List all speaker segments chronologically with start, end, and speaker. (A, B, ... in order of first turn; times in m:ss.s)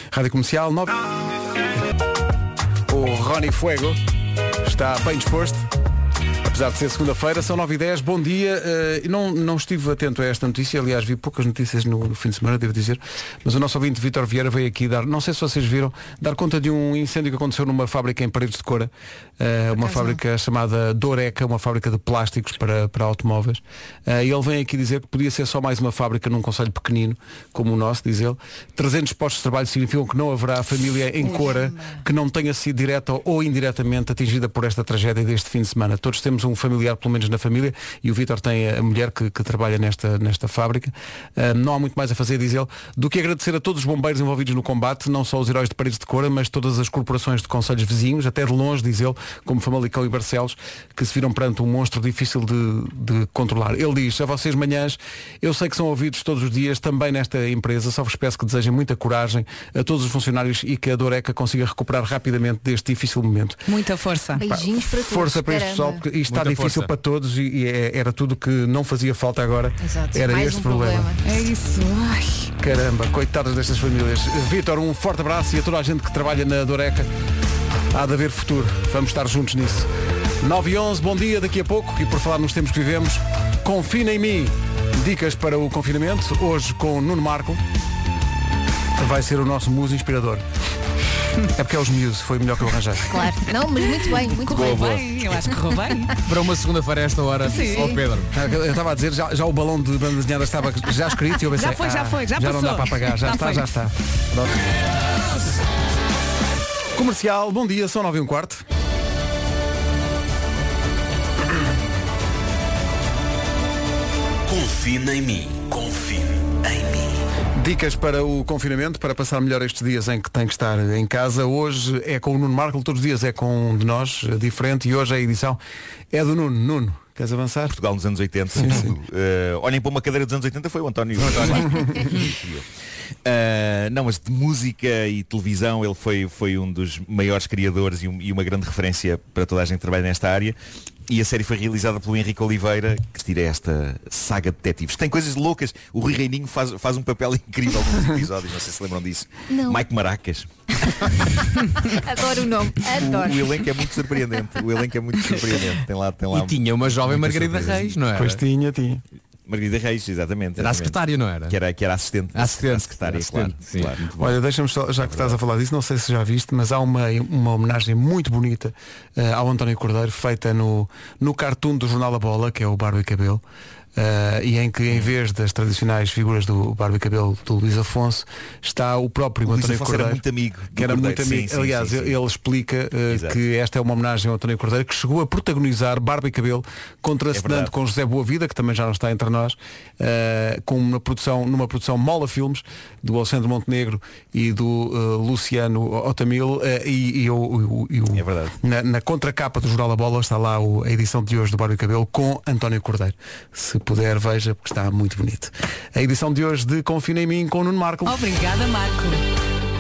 0:00.1-0:01.0 A
0:02.9-0:04.0 A
0:04.6-0:05.7 A
0:06.4-1:03.6 A
0:19.8-0:20.2 B
0:31.3-0:32.0 B
1:03.7-1:04.4 C
1:04.4-1:06.0 B
1:04.4-1:11.1 A
1:06.3-1:06.9 D
1:09.8-1:11.2 B
1:11.2-1:12.5 C
1:12.6-1:17.1 A
1:17.9-1:19.9 A
1:20.4-1:27.6 A
1:29.0-1:30.4 A
1:31.5-1:33.3 A
1:33.1-1:34.9 B
1:34.3-1:36.1 C
1:34.5-1:35.5 E
1:36.2-1:38.3 D
1:37.5-1:38.0 C
1:37.6-1:38.0 B
1:38.3-1:44.7 A
1:41.6-1:43.7 C
1:46.9-1:48.6 A
1:54.4-1:57.2 F
1:57.6-2:05.6 A
2:06.1-2:07.8 A
2:07.7-2:12.7 E
2:08.6-2:08.9 A
2:11.3-2:12.1 A
2:13.2-2:20.6 E
2:21.1-2:30.5 E
2:29.5-2:29.8 B
2:31.8-2:33.9 B
2:32.9-2:38.0 E
2:36.3-2:38.4 D
2:38.1-2:39.0 A
2:39.5-2:44.1 E
2:40.6-2:41.6 D
2:42.4-2:44.3 D
2:44.2-2:53.4 A
2:45.0-2:45.4 E
2:54.0-3:00.2 A
2:54.9-2:55.1 E
2:59.5-3:02.2 E
3:00.8-3:28.2 A
3:03.1-3:03.4 E
3:07.3-3:07.7 E
3:18.1-3:18.6 E
3:28.1-3:29.2 C